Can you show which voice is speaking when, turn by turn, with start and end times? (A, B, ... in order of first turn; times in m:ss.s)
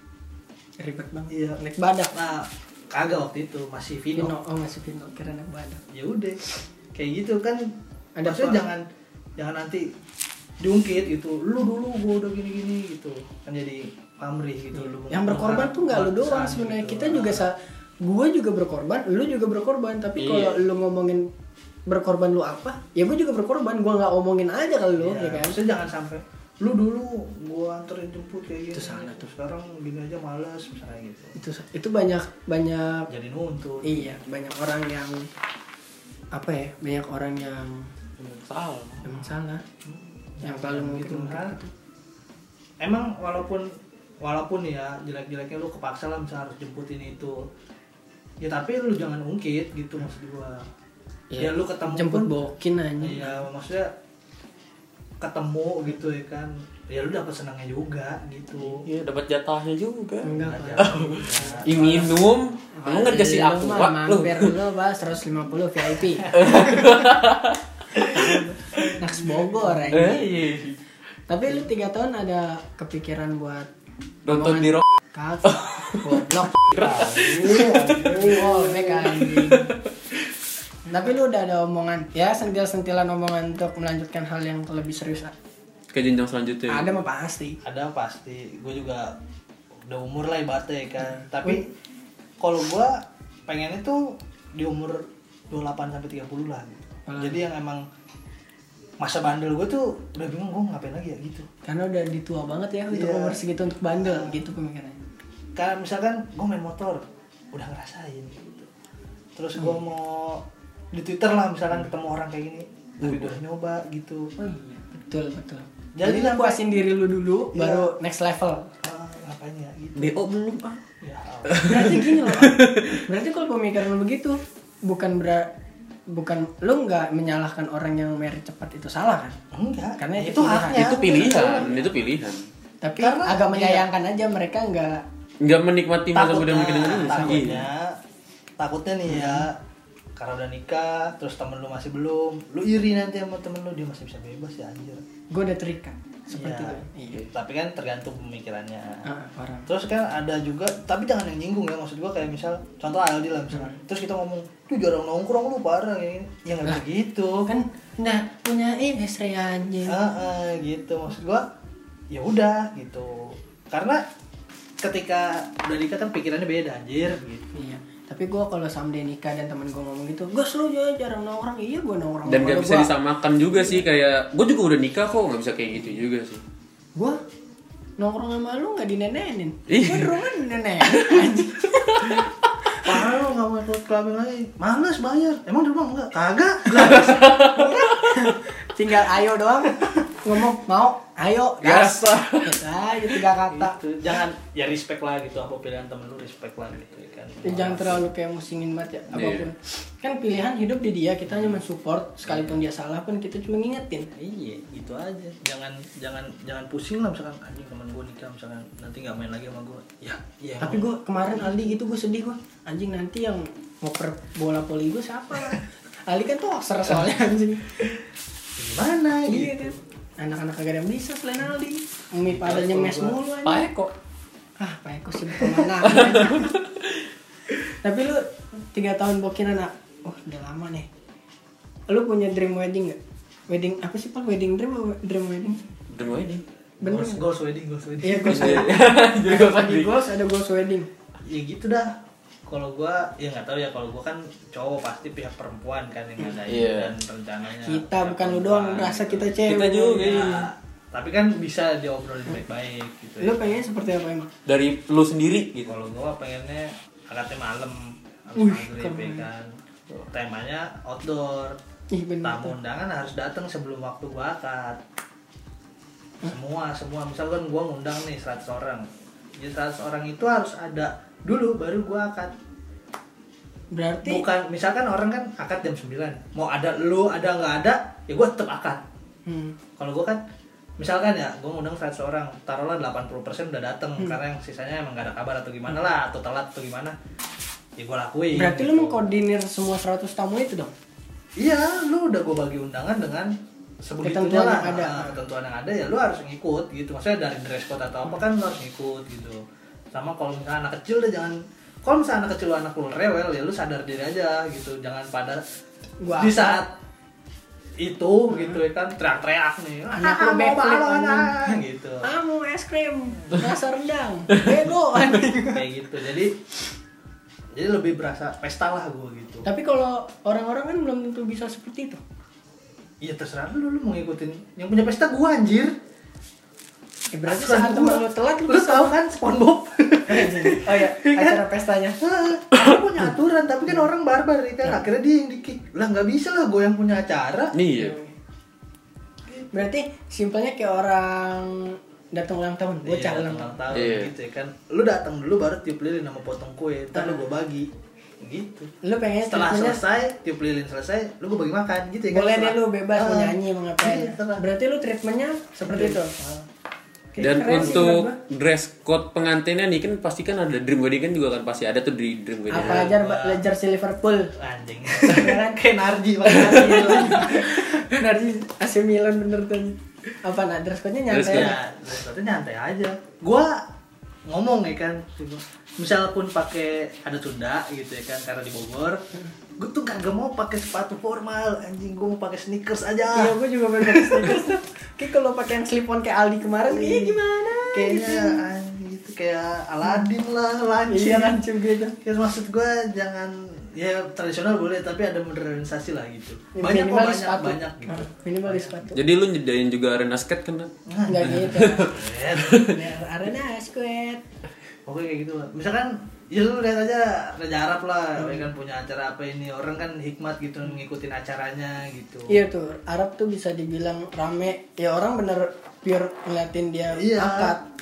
0:00.8-0:02.1 A
0:01.3-0:01.6 B
0:02.1-0:04.3 B
0:04.2-0:05.8 A
0:05.9-0:06.4 B
0:07.0-0:07.7 B
0:08.2-0:08.6 A
0:08.2-0:08.8 B
0:09.4-0:09.9 B
0:10.6-0:17.4 B
0:14.8-0:21.3 A
0:20.2-0:20.6 C
0:21.9-0:25.6 A
0:25.0-0:31.4 B
0:28.7-0:29.3 A
0:31.4-0:33.1 A
0:33.1-0:34.1 B
0:33.8-0:35.3 A
0:36.3-0:37.9 A
0:38.2-0:39.2 C
0:39.0-0:39.6 A
0:39.8-0:41.6 B
0:40.4-0:41.7 A
0:42.8-0:47.5 B
0:48.4-0:50.7 B
0:51.3-0:53.4 A
0:51.4-0:52.4 B
0:53.0-0:53.9 B
0:55.2-0:58.9 B
0:58.7-1:04.6 C
1:00.2-1:02.1 A
1:00.4-1:02.2 B
1:02.7-1:07.0 A
1:06.2-1:06.7 B
1:06.3-1:09.0 C
1:08.0-1:10.4 A
1:09.9-1:10.8 C
1:11.3-1:13.7 A
1:14.3-1:14.8 C
1:14.3-1:16.7 A
1:15.4-1:18.4 C
1:16.7-1:19.1 B
1:17.8-1:19.7 A
1:19.0-1:19.8 C
1:20.9-1:25.3 A
1:25.9-1:26.9 C
1:26.7-1:27.6 A
1:27.6-1:29.2 B
1:29.9-1:31.7 B
1:31.0-1:31.6 A
1:32.4-1:37.8 B
1:37.1-1:37.4 A
1:39.0-1:41.5 B
1:41.6-1:45.0 A
1:42.9-1:43.4 B
1:44.0-1:44.4 B
1:45.6-1:48.7 B
1:49.4-1:54.3 B
1:53.0-1:53.3 C
1:54.4-1:58.7 A
1:56.0-1:56.6 B
1:57.5-1:57.9 B
1:58.8-2:00.2 B
2:00.0-2:00.8 C
2:01.0-2:02.1 B
2:01.5-2:03.0 C
2:01.6-2:05.5 A
2:06.1-2:09.4 A
2:09.5-2:11.9 B
2:10.0-2:11.8 A
2:10.7-2:12.4 C
2:12.8-2:15.0 A
2:13.0-2:13.9 B
2:15.4-2:17.7 C
2:16.2-2:18.0 B
2:16.9-2:17.7 A
2:18.6-2:19.6 B
2:19.1-2:19.5 A
2:20.2-2:25.0 B
2:25.3-2:27.3 A
2:26.4-2:29.1 B
2:29.1-2:29.7 A
2:29.7-2:37.5 B
2:33.5-2:33.8 A
2:37.5-2:40.0 A
2:39.9-2:41.5 B
2:42.1-2:44.0 B
2:44.8-2:47.5 B
2:47.6-2:52.9 A
2:52.3-2:56.4 C
2:53.6-2:53.8 A
2:58.0-3:02.9 A
2:59.7-3:00.2 C
3:00.8-3:02.2 C
3:02.8-3:07.5 B
3:06.9-3:08.4 C
3:07.2-3:13.8 A
3:11.6-3:12.6 C
3:13.5-3:18.0 B
3:17.4-3:24.1 A
3:19.1-3:19.5 C
3:24.2-3:31.7 B
3:30.6-3:37.9 A
3:38.6-3:39.8 B
3:39.3-3:43.7 A
3:42.3-3:43.2 B
3:43.4-3:43.9 C
3:44.6-3:46.5 A
3:45.9-3:47.1 C
3:47.8-3:50.9 A
3:51.9-3:53.0 A
3:53.5-3:55.6 A
3:55.9-3:56.4 C
3:56.8-3:57.2 A
3:56.8-3:58.7 B
3:58.0-4:00.9 A
3:58.2-4:00.0 C
4:01.3-4:01.9 B
4:02.5-4:13.6 B
4:06.4-4:06.9 C
4:07.6-4:10.4 A
4:09.5-4:10.3 C
4:13.2-4:14.3 A
4:14.5-4:15.7 C
4:15.7-4:19.5 B
4:18.4-4:19.3 A
4:20.1-4:21.6 B
4:21.9-4:22.6 A
4:22.2-4:24.8 B
4:26.2-4:28.8 B
4:29.4-4:32.3 B
4:33.7-4:34.2 A
4:34.0-4:38.8 B
4:39.3-4:39.6 A
4:39.8-4:40.2 B
4:40.8-4:47.0 B
4:47.8-4:49.0 B
4:48.3-4:50.7 A
4:51.4-5:05.4 B
4:54.0-4:55.2 A
5:06.0-5:06.6 A
5:06.1-5:06.7 B
5:07.8-5:12.1 B
5:08.3-5:08.6 A
5:09.9-5:15.6 A
5:15.5-5:16.4 B
5:17.5-5:19.4 B
5:19.4-5:22.0 A
5:23.0-5:25.7 B
5:27.1-5:28.9 A
5:27.3-5:31.4 B
5:30.1-5:32.0 A
5:32.0-5:37.6 B
5:37.5-5:38.0 C
5:37.8-5:38.1 A
5:39.5-5:43.6 A
5:42.8-5:47.7 B
5:43.7-5:44.1 C
5:47.0-5:47.2 A
5:48.2-5:48.7 B
5:48.8-5:49.8 A
5:49.3-5:54.4 B
5:52.1-5:56.1 A
5:55.7-5:56.4 B
5:57.2-5:57.9 B
5:57.2-5:58.2 A
5:57.2-6:02.9 C
6:02.5-6:04.3 A
6:02.6-6:03.4 B
6:04.4-6:07.4 B
6:04.9-6:05.6 A
6:06.2-6:11.6 A
6:11.1-6:11.5 C
6:11.3-6:13.6 B
6:14.3-6:19.0 B
6:19.6-6:24.5 B
6:23.1-6:28.4 A
6:26.7-6:27.2 B
6:27.7-6:31.4 B
6:30.9-6:32.0 A
6:32.0-6:38.8 B
6:36.6-6:39.0 A
6:38.9-6:40.7 C
6:40.9-6:42.6 B
6:41.1-6:41.9 A
6:41.2-6:42.8 C
6:42.6-6:44.2 A
6:44.9-6:52.4 B
6:48.2-6:48.5 A
6:52.3-6:57.6 A
6:56.9-6:57.6 B